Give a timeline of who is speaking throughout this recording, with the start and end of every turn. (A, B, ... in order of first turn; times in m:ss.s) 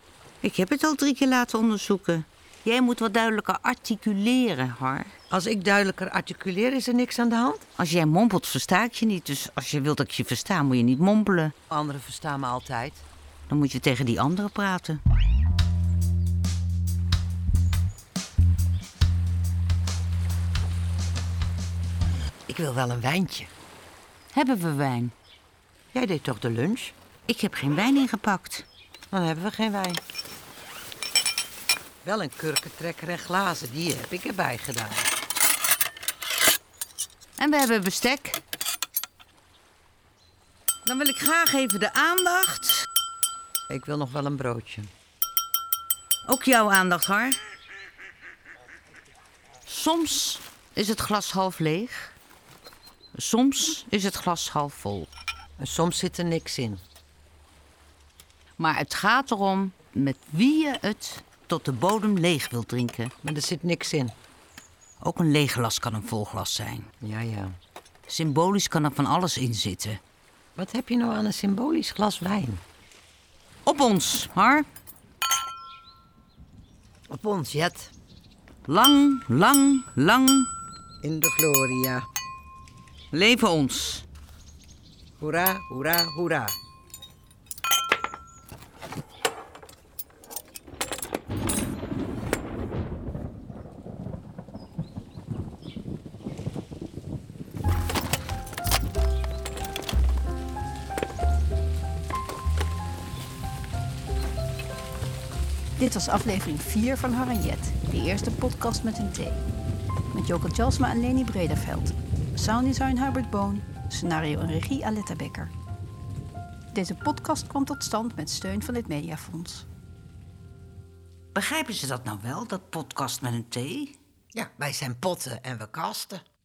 0:00.4-0:05.1 A
0:05.3-0:07.6 B
0:07.8-0:11.5 A
0:11.7-0:13.0 B
0:13.5-0:15.0 A
0:22.5-0:23.5 B
0:24.3-0:25.1 A
0:25.9-0:26.9 B
0:27.3-0:28.6 A
0:29.1-0:30.0 B
0:32.0-0:35.1 B
0:37.4-0:38.4 A
0:40.8-0:42.8 A
0:43.7-0:44.9 B
0:46.2-0:47.4 A
0:49.6-0:52.1 A
0:53.1-0:55.1 A
0:55.6-0:56.8 B
0:58.6-1:03.1 A
1:03.2-1:04.1 B
1:05.0-1:06.9 A
1:07.0-1:07.5 B
1:08.1-1:10.0 A
1:10.6-1:12.6 B
1:13.6-1:14.7 A
1:17.1-1:17.9 B
1:18.7-1:20.5 A
1:21.0-1:22.0 B
1:23.1-1:24.0 A
1:25.2-1:26.6 B
1:45.8-1:49.4 C
1:50.1-1:55.5 C
1:56.7-1:59.6 C
2:01.3-2:03.9 A
2:04.3-2:06.2 B